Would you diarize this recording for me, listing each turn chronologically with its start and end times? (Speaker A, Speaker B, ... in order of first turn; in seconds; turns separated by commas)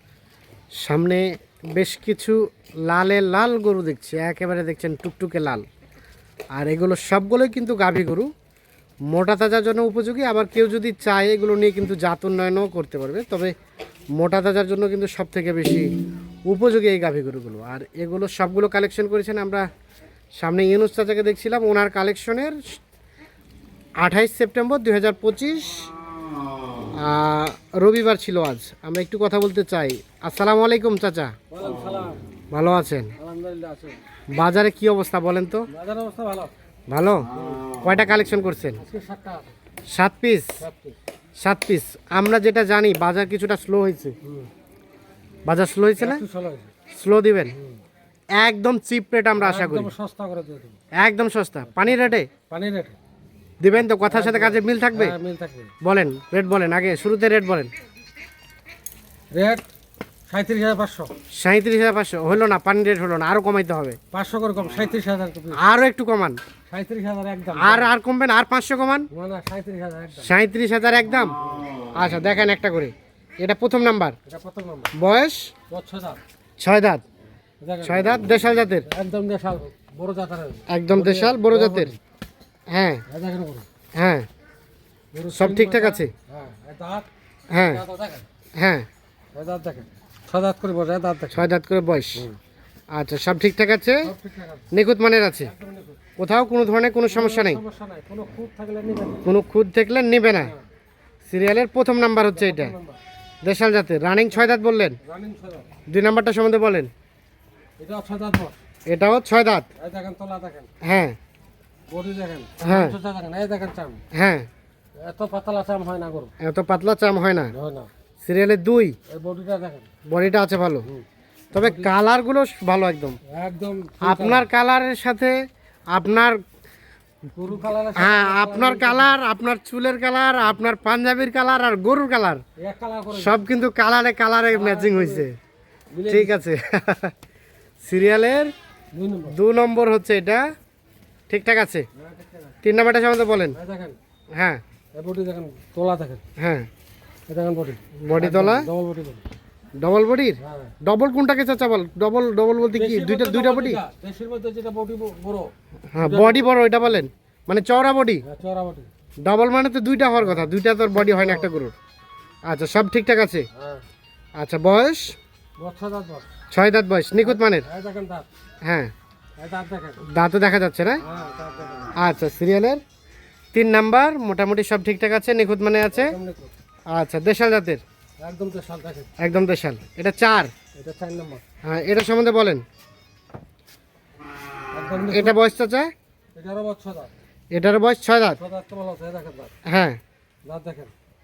Speaker A: 0.8-5.7, Speaker A: 6.5-8.3, Speaker A: 9.1-13.5, Speaker A: 14.2-15.9, Speaker A: 16.5-19.6, Speaker A: 20.4-22.8, Speaker A: 24.0-25.8, Speaker A: 26.9-31.3, Speaker B: 31.5-32.2, Speaker A: 32.5-33.1, Speaker B: 33.2-34.0, Speaker A: 34.3-35.7, Speaker B: 35.7-36.5, Speaker A: 36.9-37.2, Speaker B: 37.3-37.6, Speaker A: 37.8-38.8, Speaker B: 38.8-39.5, Speaker A: 39.9-40.6, Speaker B: 40.6-41.0, Speaker A: 41.4-44.1, Speaker B: 44.2-44.5, Speaker A: 45.5-46.2, Speaker B: 46.0-46.7, Speaker A: 46.9-47.5, Speaker B: 47.5-47.8, Speaker A: 48.3-49.9, Speaker B: 49.4-50.8, Speaker A: 50.9-52.3, Speaker B: 51.7-52.0, Speaker B: 52.5-53.0, Speaker A: 53.6-55.1, Speaker B: 54.0-55.7, Speaker A: 55.8-57.7, Speaker B: 59.3-59.7, Speaker B: 60.3-61.1, Speaker A: 61.4-64.0, Speaker B: 64.1-65.6, Speaker A: 65.5-66.4, Speaker B: 66.7-67.9, Speaker A: 67.5-69.1, Speaker B: 69.1-70.3, Speaker A: 70.2-71.3, Speaker A: 71.9-74.2, Speaker B: 74.3-74.9, Speaker A: 74.9-75.5, Speaker B: 75.7-76.2, Speaker A: 76.6-77.0, Speaker B: 77.6-78.3, Speaker A: 77.8-78.9, Speaker B: 78.8-82.0, Speaker A: 80.7-81.9, Speaker A: 82.7-83.0, Speaker B: 83.1-83.7, Speaker A: 83.9-84.3, Speaker B: 85.1-88.2, Speaker A: 85.3-86.1, Speaker A: 87.5-87.8, Speaker A: 88.5-88.8, Speaker B: 89.3-91.5, Speaker A: 91.3-92.2, Speaker A: 92.9-94.1, Speaker B: 94.0-94.7, Speaker A: 94.7-95.5, Speaker B: 95.4-96.0, Speaker A: 96.2-97.6, Speaker B: 97.1-99.2, Speaker A: 99.2-100.5, Speaker B: 100.4-100.6, Speaker A: 101.3-102.7, Speaker B: 102.3-103.0, Speaker A: 103.4-105.0, Speaker B: 105.0-105.7, Speaker A: 105.9-106.9, Speaker B: 107.8-108.5, Speaker A: 108.9-109.7, Speaker B: 109.8-110.7, Speaker A: 110.8-111.2, Speaker B: 111.9-114.0, Speaker A: 112.6-112.9, Speaker A: 114.1-114.5, Speaker B: 115.0-116.3, Speaker A: 116.4-117.5, Speaker B: 117.5-117.9, Speaker A: 118.2-119.0, Speaker B: 119.1-119.9, Speaker A: 120.0-120.9, Speaker A: 121.5-123.2, Speaker B: 121.6-121.9, Speaker B: 123.3-124.5, Speaker A: 124.0-125.4, Speaker A: 125.9-126.4, Speaker B: 127.3-129.1, Speaker A: 127.9-132.4, Speaker B: 132.6-133.4, Speaker A: 133.1-135.3, Speaker B: 134.5-135.3, Speaker B: 135.9-136.4, Speaker A: 136.1-137.1, Speaker A: 137.8-138.5, Speaker B: 138.9-139.4, Speaker A: 139.3-140.5, Speaker A: 141.3-141.9, Speaker B: 142.0-142.5, Speaker A: 142.6-143.6, Speaker B: 143.5-144.0, Speaker A: 144.3-144.6, Speaker B: 144.9-146.2, Speaker A: 146.4-146.7, Speaker B: 147.3-149.2, Speaker A: 148.0-148.7, Speaker A: 149.8-153.8, Speaker B: 150.4-150.7, Speaker B: 152.6-156.5, Speaker A: 155.9-158.2, Speaker B: 158.2-158.9, Speaker A: 159.2-161.7, Speaker B: 160.2-161.5, Speaker A: 162.4-163.5, Speaker B: 163.5-163.8, Speaker A: 164.3-165.2, Speaker B: 165.6-166.3, Speaker A: 166.5-167.7, Speaker B: 167.2-168.3, Speaker A: 168.6-168.9, Speaker B: 169.4-170.0, Speaker A: 170.0-171.0, Speaker B: 171.0-171.9, Speaker A: 171.9-172.8, Speaker A: 173.5-176.1, Speaker B: 175.9-176.5, Speaker A: 176.9-177.8, Speaker B: 178.2-179.1, Speaker A: 179.2-180.5, Speaker B: 180.8-181.4, Speaker A: 181.6-182.6, Speaker B: 184.7-185.4, Speaker A: 185.0-185.9, Speaker B: 186.3-187.1, Speaker A: 187.5-188.4, Speaker B: 188.4-189.5, Speaker A: 189.6-190.0, Speaker B: 190.4-190.9